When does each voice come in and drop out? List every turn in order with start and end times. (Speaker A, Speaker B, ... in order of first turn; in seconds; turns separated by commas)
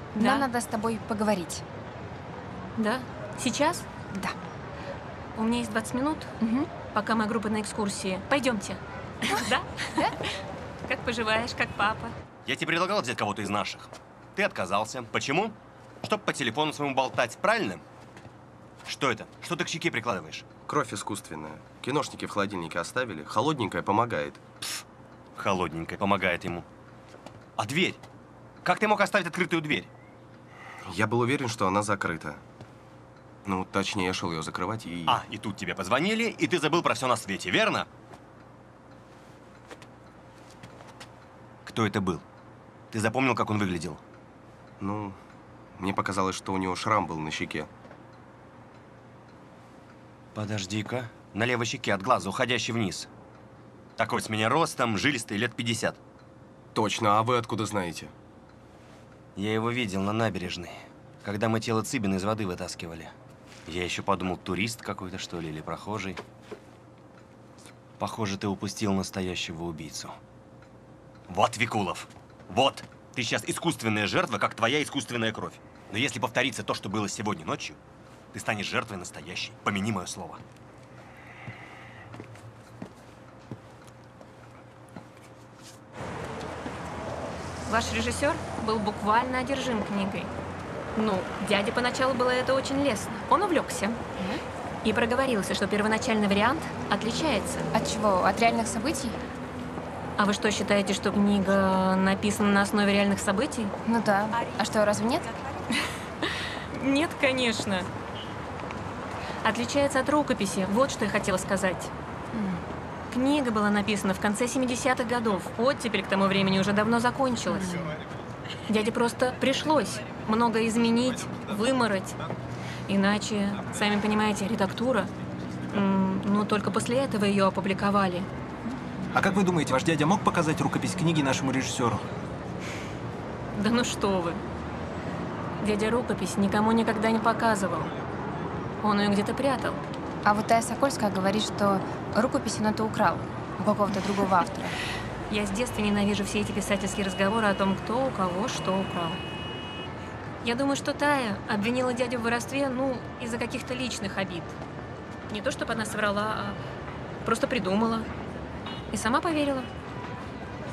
Speaker A: 0.1-1.6, Speaker B: 0.2-0.5, Speaker B: 2.8-3.9, Speaker B: 5.3-6.3, Speaker A: 6.4-6.7, Speaker B: 6.9-10.1, Speaker B: 10.8-12.1, Speaker C: 12.4-17.8, Speaker C: 18.9-20.4, Speaker D: 20.7-24.4, Speaker C: 25.4-26.6, Speaker C: 27.6-28.0, Speaker C: 28.6-29.9, Speaker D: 30.9-32.4, Speaker D: 33.5-35.2, Speaker C: 35.0-37.9, Speaker C: 41.6-42.2, Speaker C: 42.9-44.0, Speaker D: 44.8-45.1, Speaker D: 45.8-47.7, Speaker C: 50.3-53.1, Speaker C: 54.0-56.0, Speaker D: 56.7-58.1, Speaker C: 59.4-63.1, Speaker C: 63.7-66.2, Speaker C: 68.0-70.1, Speaker C: 71.3-77.8, Speaker C: 78.3-80.4, Speaker B: 87.7-90.3, Speaker B: 91.0-94.0, Speaker B: 94.8-97.7, Speaker A: 97.7-99.2, Speaker B: 100.2-103.7, Speaker A: 103.8-105.3, Speaker B: 106.7-107.9, Speaker B: 109.4-111.9, Speaker A: 112.3-112.6, Speaker B: 113.1-117.8, Speaker A: 117.5-117.8, Speaker B: 118.7-122.2, Speaker B: 122.9-125.1, Speaker B: 125.7-128.3, Speaker E: 129.1-132.0, Speaker B: 133.5-134.4, Speaker B: 135.6-137.9, Speaker B: 138.8-139.8, Speaker A: 140.2-144.7, Speaker B: 145.3-149.2, Speaker B: 150.4-154.6, Speaker B: 155.3-156.6, Speaker B: 157.2-158.1, Speaker B: 158.9-159.7